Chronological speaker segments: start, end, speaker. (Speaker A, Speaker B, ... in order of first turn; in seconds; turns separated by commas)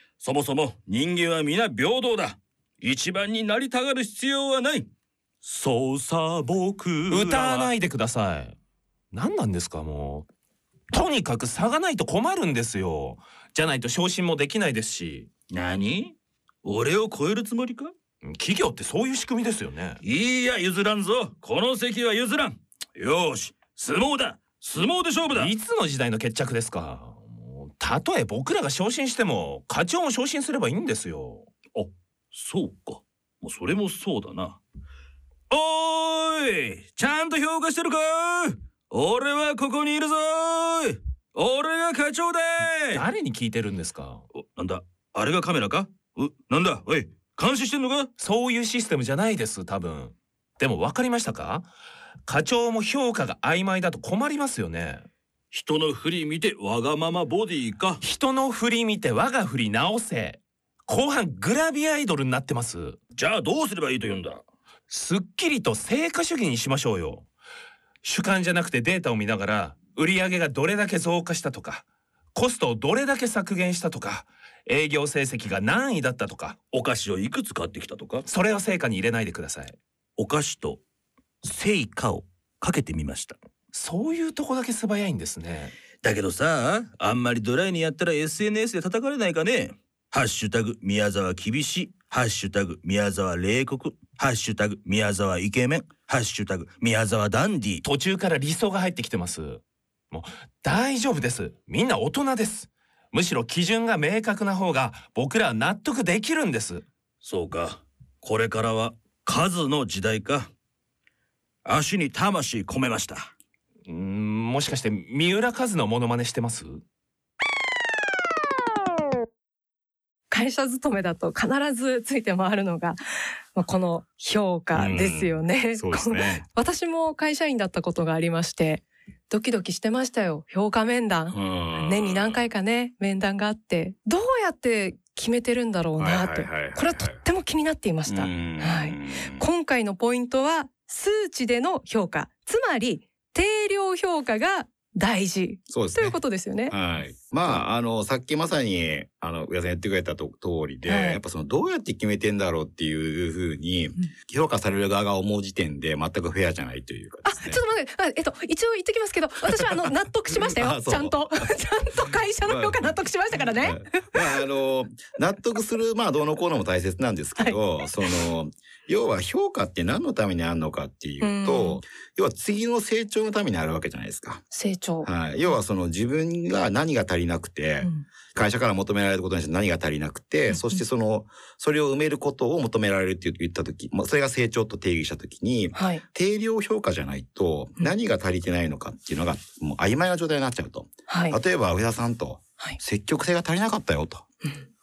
Speaker A: 0.2-4.9, Speaker A: 5.4-7.7, Speaker B: 7.1-8.6, Speaker B: 9.1-10.2, Speaker B: 10.9-15.3, Speaker A: 15.5-17.9, Speaker B: 18.2-20.0, Speaker A: 20.0-25.5, Speaker B: 25.3-31.5, Speaker A: 31.7-34.6, Speaker A: 35.5-43.0, Speaker B: 42.9-44.2, Speaker A: 44.3-48.1, Speaker B: 48.2-51.7, Speaker B: 52.3-55.0, Speaker A: 55.5-58.0, Speaker B: 58.0-63.0, Speaker A: 63.1-64.4, Speaker B: 64.9-67.3, Speaker B: 68.0-76.6, Speaker A: 76.7-78.2, Speaker B: 78.2-79.8, Speaker A: 80.2-80.8, Speaker A: 81.6-83.3, Speaker B: 83.7-85.7, Speaker A: 86.0-97.8, Speaker B: 97.8-106.8, Speaker A: 107.2-110.5, Speaker A: 111.7-113.3, Speaker B: 113.9-116.8, Speaker C: 120.3-123.0, Speaker C: 123.5-146.7, Speaker D: 124.7-126.4, Speaker D: 131.3-132.4, Speaker D: 136.0-137.2, Speaker D: 138.1-139.4, Speaker D: 145.7-146.2, Speaker D: 146.7-157.6, Speaker C: 150.8-151.2, Speaker C: 157.2-164.3, Speaker D: 160.3-161.5, Speaker D: 162.4-174.4, Speaker C: 171.2-171.8, Speaker C: 174.5-175.1, Speaker D: 175.0-194.2, Speaker C: 180.5-180.8, Speaker C: 185.7-186.0, Speaker C: 191.1-191.4